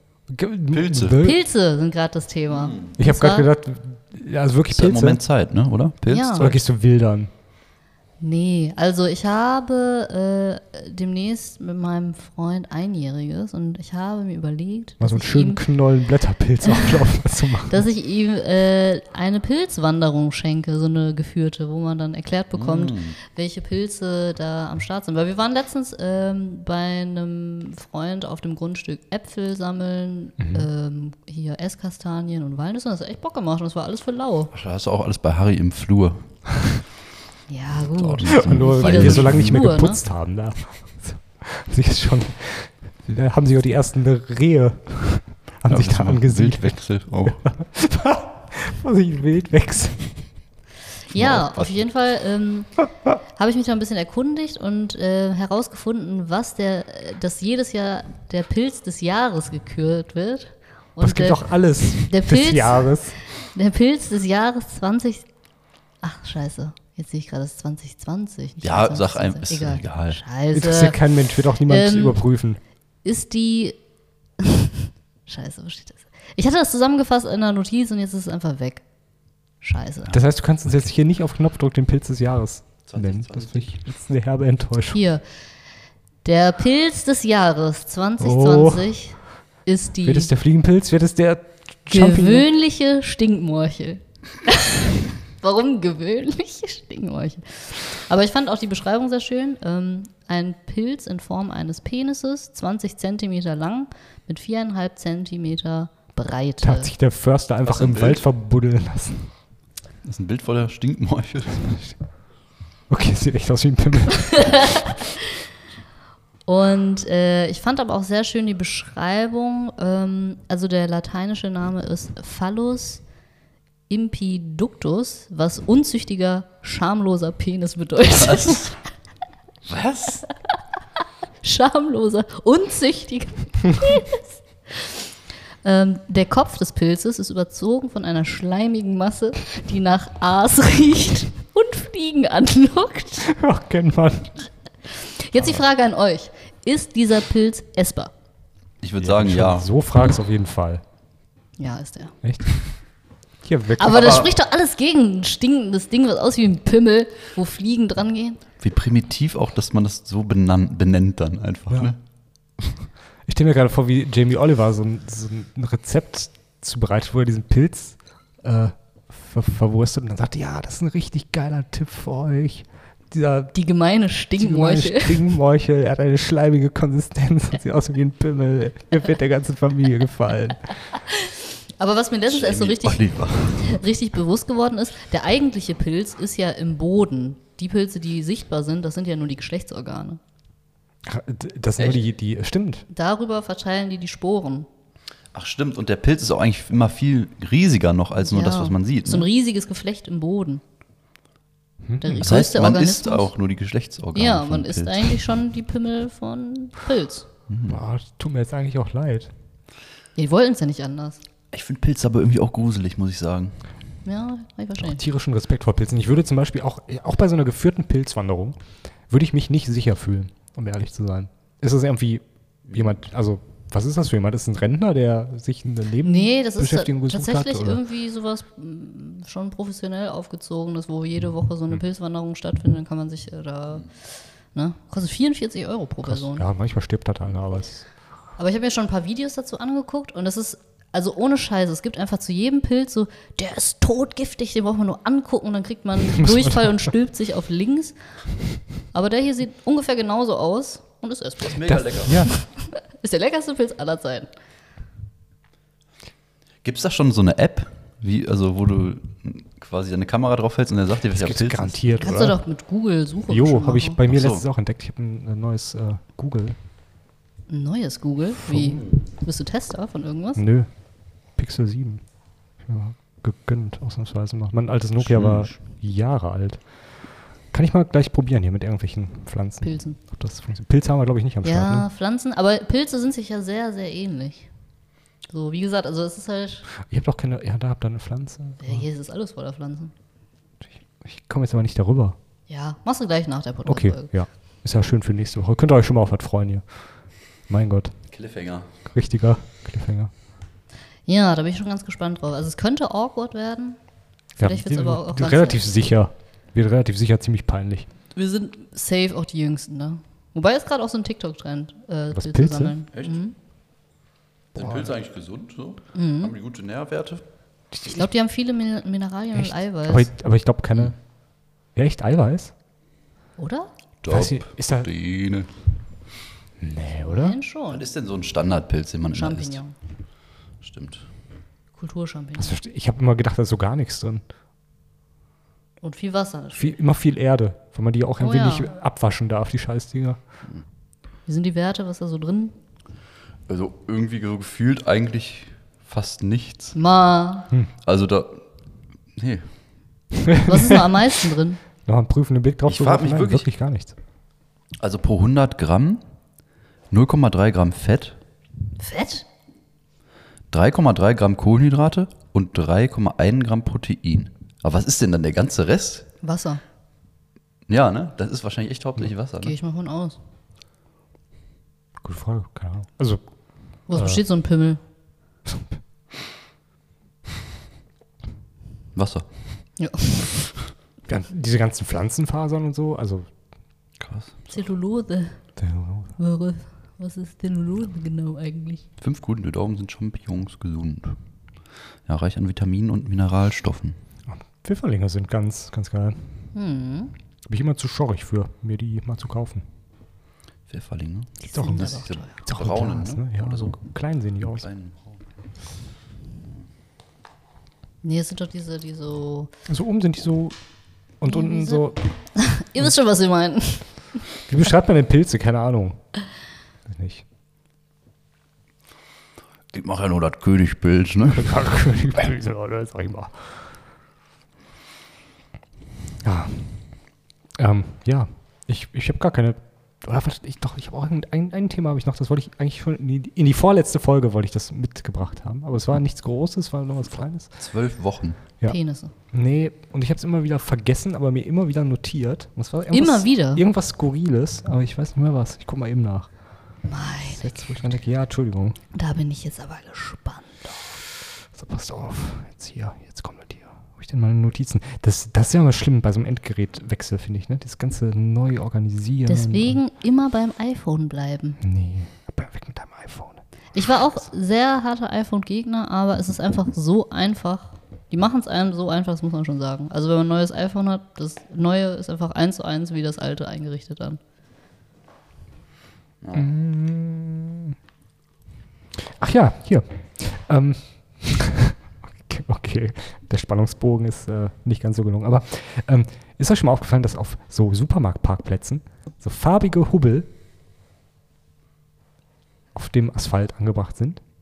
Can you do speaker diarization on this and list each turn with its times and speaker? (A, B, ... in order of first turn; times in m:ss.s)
0:00.3-0:01.4 A
0:00.7-0:01.2 B
0:01.1-0:03.5 C
0:02.6-0:02.9 B
0:03.0-0:05.2 A
0:04.7-0:06.5 B
0:06.1-0:06.5 C
0:06.4-0:07.3 A
0:08.2-0:15.6 C
0:15.0-0:17.8 A
0:16.6-0:17.0 C
0:17.6-0:34.5 C
0:22.5-0:23.2 B
0:30.4-0:30.7 A
0:34.5-0:36.3 B
0:37.5-0:40.0 C
0:37.8-0:39.7 B
0:38.3-0:50.2 A
0:45.7-0:47.4 B
0:51.1-0:52.7 C
0:51.1-0:51.9 B
0:53.3-1:05.3 C
1:01.0-1:03.2 A
1:06.0-1:11.0 C
1:08.6-1:10.2 B
1:10.5-1:12.6 A
1:11.6-1:12.2 C
1:13.0-1:13.8 C
1:14.4-1:18.8 C
1:19.6-1:20.2 C
1:20.1-1:25.0 A
1:22.9-1:23.8 B
1:24.9-1:25.2 C
1:26.2-1:30.3 C
1:28.2-1:29.0 A
1:30.0-1:32.5 A
1:31.9-1:46.9 C
1:46.6-1:49.3 A
1:47.6-1:48.2 B
1:50.0-1:51.8 B
1:52.9-1:54.9 A
1:54.3-1:55.0 C
1:56.5-2:03.0 C
2:03.9-2:08.7 C
2:08.1-2:08.7 B
2:09.6-2:10.2 B
2:11.4-2:15.0 C
2:15.6-2:23.3 C
2:23.2-2:24.5 A
2:24.9-2:28.1 C
2:28.8-2:29.7 B
2:29.0-2:30.8 A
2:31.6-2:32.1 C
2:32.2-2:32.5 A
2:33.4-2:34.3 A
2:33.8-2:38.4 C
2:33.9-2:34.3 B
2:38.6-2:42.0 B
2:43.3-2:53.5 A
2:53.5-2:55.2 C
2:54.4-3:00.7 A
3:01.0-3:10.2 C
3:02.3-3:03.8 B
3:11.0-3:12.8 A
3:12.9-3:14.7 C
3:15.3-3:19.3 B
3:18.2-3:20.6 C
3:21.8-3:22.4 A
3:22.0-3:23.3 C
3:22.2-3:25.2 B
3:24.1-3:27.3 C
3:27.5-3:27.8 B
3:27.7-3:29.3 A
3:30.2-3:31.2 C
3:31.5-3:33.6 B
3:34.0-3:35.0 C
3:34.8-3:38.6 A
3:39.1-3:47.8 A
3:46.0-3:53.9 C
3:54.5-3:56.4 C
3:56.0-3:57.8 A
3:58.4-4:08.0 C
4:06.1-4:06.7 A
4:08.9-4:14.3 C
4:11.4-4:12.3 B
4:11.7-4:12.3 A
4:16.6-4:22.0 B
4:21.1-4:22.4 A
4:22.0-4:24.0 C
4:23.3-4:26.6 A
4:24.1-4:24.4 B
4:27.5-4:30.4 C
4:30.4-4:30.7 A
4:31.4-4:32.0 A
4:32.6-4:36.6 A
4:35.0-4:35.6 B
4:37.5-4:41.9 A
4:39.6-4:40.0 C
4:41.4-4:44.5 C
4:45.3-4:46.6 C
4:46.8-4:48.8 A
4:48.6-4:49.9 C
4:50.7-4:52.2 A
4:52.5-4:54.1 C
4:53.6-4:56.6 A
4:57.5-4:57.9 A
4:58.1-4:58.7 B
4:58.9-5:00.1 A
5:01.0-5:03.8 C
5:04.4-5:05.6 C
5:04.4-5:07.9 A
5:08.1-5:13.3 C
5:12.1-5:12.7 A
5:14.5-5:17.2 B
5:15.9-5:16.3 C
5:17.7-5:18.1 A
5:17.8-5:20.1 C
5:19.3-5:20.9 A
5:21.7-5:22.5 A
5:23.4-5:23.7 C
5:24.0-5:25.5 B
5:24.1-5:24.9 A
5:26.6-5:27.4 A
5:27.0-5:27.8 C
5:27.7-5:29.6 B
5:29.1-5:29.7 C
5:30.6-5:31.1 B
5:31.8-5:32.6 C
5:32.4-5:34.2 A
5:35.8-5:36.8 C
5:36.6-5:40.2 A
5:38.2-5:38.7 C
5:41.3-5:42.5 C
5:43.5-5:46.7 B
5:46.7-5:47.5 C
5:47.8-5:48.4 B
5:49.2-5:49.5 B
5:50.2-5:50.8 A
5:50.4-5:51.6 C
5:51.8-5:54.0 A
5:52.6-5:53.5 B
5:54.8-5:56.0 B
5:56.9-5:58.2 B
5:58.8-5:59.2 C
6:00.5-6:06.1 B
6:06.2-6:06.6 C
6:07.7-6:09.6 B
6:09.4-6:10.2 C
6:12.0-6:13.2 A
6:13.9-6:14.8 C
6:13.9-6:14.2 A
6:18.9-6:19.3 B
6:19.8-6:20.3 C
6:21.1-6:23.3 A
6:24.0-6:24.5 B
6:24.5-6:25.4 C
6:25.6-6:26.1 A
6:26.2-6:28.8 C
6:29.0-6:31.2 B
6:32.1-6:34.0 B
6:34.3-6:36.4 A
6:36.5-6:37.1 C
6:37.4-6:39.7 A
6:40.7-6:43.8 B
6:41.4-6:42.3 C
6:41.5-6:44.7 A
6:44.5-6:45.2 B
6:48.0-6:49.5 C
6:49.7-6:50.6 A
6:51.2-6:52.0 A
6:51.2-6:54.2 C
6:54.5-6:56.0 A
6:56.9-6:57.2 A
6:59.7-7:01.6 B
7:01.3-7:03.6 A
7:06.2-7:06.9 A
7:07.6-7:17.5 A
7:17.6-7:18.4 B
7:18.6-7:19.1 C
7:19.3-7:26.3 A
7:22.9-7:23.6 C
7:26.9-7:27.6 C
7:27.4-7:28.8 A
7:28.9-7:30.8 C
7:31.5-7:39.8 A
7:39.3-7:41.6 C
7:41.6-7:43.4 A
7:43.7-7:54.2 C
7:56.2-7:56.5 B
7:56.3-7:57.8 A
7:59.0-8:10.3 A
8:12.7-8:14.2 A